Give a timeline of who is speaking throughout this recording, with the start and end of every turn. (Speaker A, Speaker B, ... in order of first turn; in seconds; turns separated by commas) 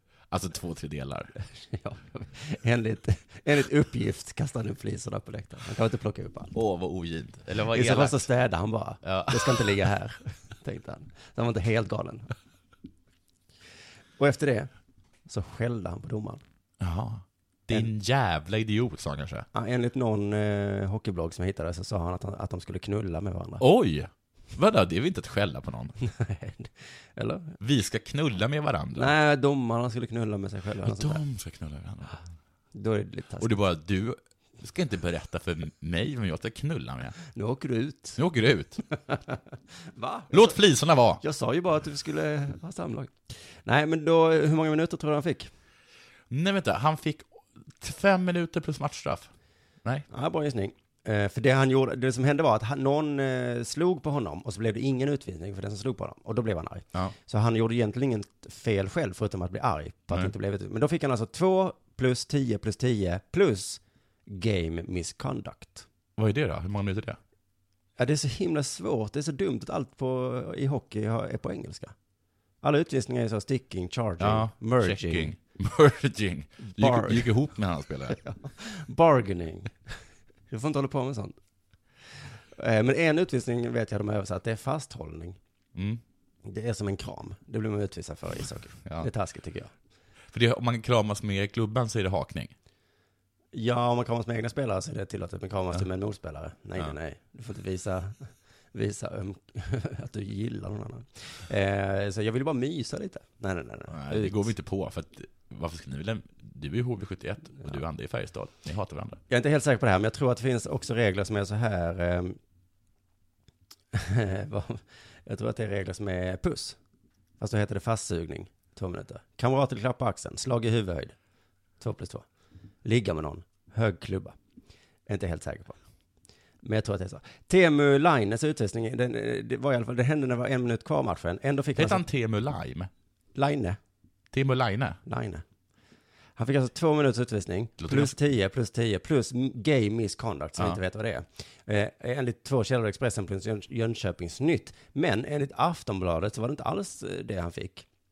Speaker A: 0.3-1.3, Speaker B: 1.4-6.5, Speaker A: 6.5-8.2, Speaker B: 7.6-12.3, Speaker A: 9.0-9.8, Speaker B: 14.2-14.7, Speaker B: 15.3-16.4, Speaker A: 16.8-19.5, Speaker B: 19.5-23.6, Speaker A: 23.6-26.0, Speaker B: 26.0-27.6, Speaker A: 27.6-29.1, Speaker B: 29.0-31.2, Speaker A: 30.8-32.2, Speaker B: 32.7-33.6, Speaker A: 33.4-37.2, Speaker B: 37.3-38.2, Speaker A: 38.2-38.8, Speaker B: 38.9-39.4, Speaker B: 39.9-40.6, Speaker A: 40.3-41.2, Speaker B: 41.2-45.5, Speaker A: 46.3-49.3, Speaker B: 50.1-65.9, Speaker A: 66.2-67.2, Speaker B: 68.0-71.9, Speaker B: 72.6-75.3, Speaker A: 74.2-78.2, Speaker B: 76.8-77.3, Speaker B: 78.1-79.8, Speaker B: 80.5-81.4, Speaker B: 82.5-85.4, Speaker A: 85.8-86.0, Speaker B: 86.5-89.7, Speaker A: 90.3-92.5, Speaker B: 93.5-104.5, Speaker A: 103.9-109.2, Speaker B: 109.3-112.4, Speaker B: 113.9-116.8, Speaker B: 117.4-121.2, Speaker B: 121.8-122.3, Speaker B: 122.8-124.4, Speaker B: 125.1-125.8, Speaker B: 126.6-132.1, Speaker A: 131.8-132.9, Speaker B: 133.3-133.8, Speaker A: 134.3-135.0, Speaker B: 135.1-135.4, Speaker B: 136.4-147.9, Speaker A: 137.8-138.2